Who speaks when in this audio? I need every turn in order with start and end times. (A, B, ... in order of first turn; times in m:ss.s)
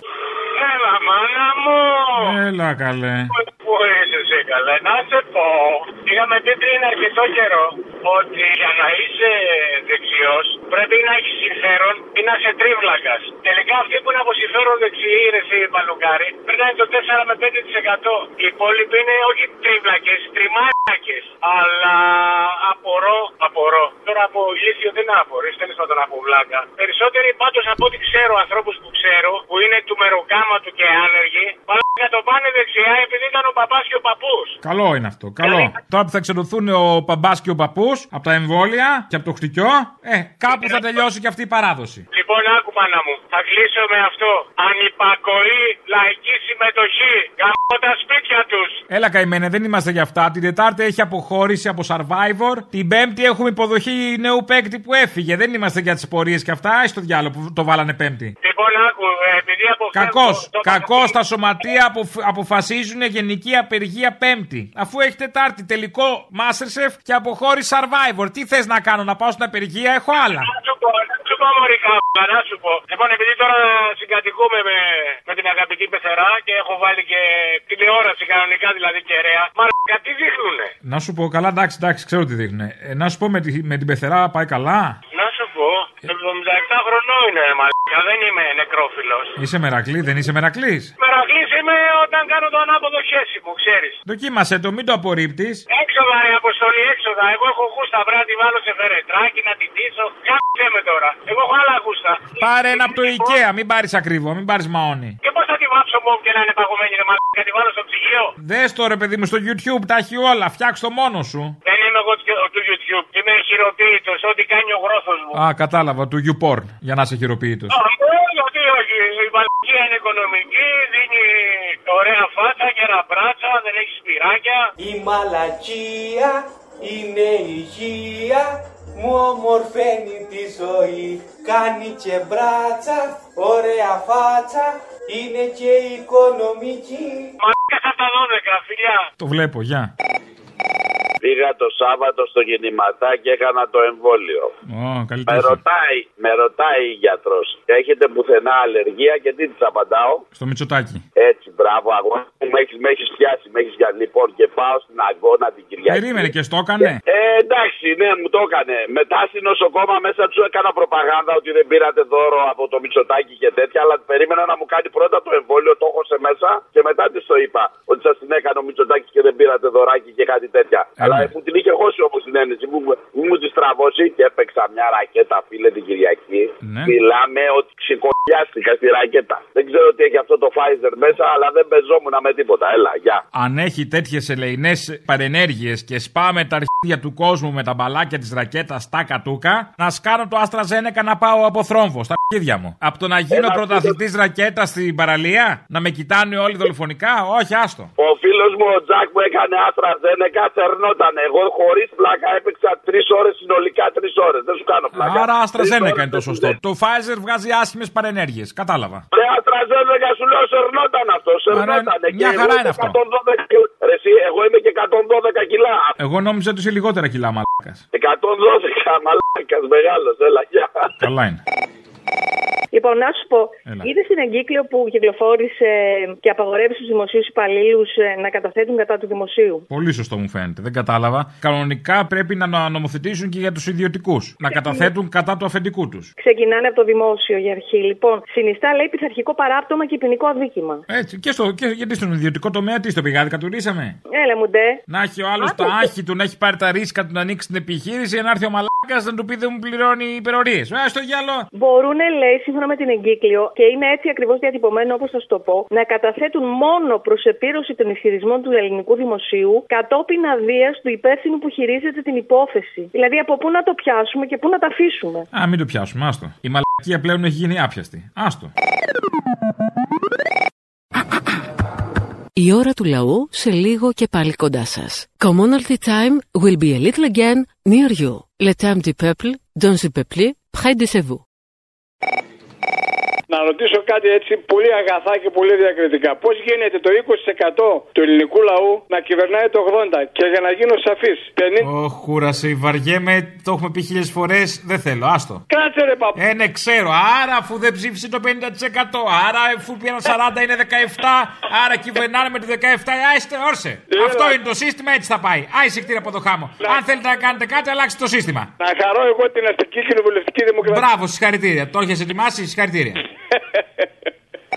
0:00.5-0:02.3 A
0:02.2-0:03.3 B
0:03.4-0:34.6 A
0:34.6-0:42.0 B
0:35.4-0:35.7 A
0:40.5-0:40.8 A
0:42.1-0:48.8 A
0:48.9-0:58.3 B
0:58.4-1:01.1 A
0:59.9-1:10.5 B
1:10.4-1:20.7 A
1:20.8-1:25.0 B
1:25.1-1:29.3 A
1:29.4-1:30.9 B
1:31.0-1:34.0 A
1:34.0-1:35.6 B
1:35.7-1:43.2 A
1:42.4-1:45.2 B
1:45.2-1:48.3 A
1:48.4-1:51.6 B
1:51.6-1:55.4 A
1:55.3-1:57.8 B
1:57.7-2:04.7 A
2:04.8-2:17.3 C
2:17.4-2:19.0 A
2:19.2-2:19.9 B
2:21.2-2:24.5 D
2:24.7-2:25.6 B
2:25.3-2:30.2 D
2:30.4-2:31.0 B
2:31.2-2:36.2 D
2:35.8-2:37.0 B
2:37.1-3:03.2 D
2:51.0-2:51.3 B
2:56.6-2:57.0 B
3:03.3-3:17.9 B
3:13.3-3:14.0 D
3:18.0-3:26.5 D
3:24.9-3:29.0 B
3:29.1-3:35.9 D
3:31.5-3:33.0 B
3:36.0-3:37.8 B
3:37.9-3:40.9 D
3:41.0-3:41.4 B
3:42.7-3:49.6 E
3:49.7-3:56.1 B
3:54.5-3:54.9 E
3:56.2-4:00.8 E
4:00.9-4:04.0 B
4:04.1-4:04.8 E
4:04.9-4:11.5 B
4:05.4-4:05.9 E
4:11.5-4:25.2 E
4:25.3-4:28.5 B
4:32.4-4:41.2 F
4:43.3-4:51.6 G
4:51.6-4:55.4 B
4:56.1-5:08.5 B
5:08.6-5:10.8 G
5:10.6-5:13.0 B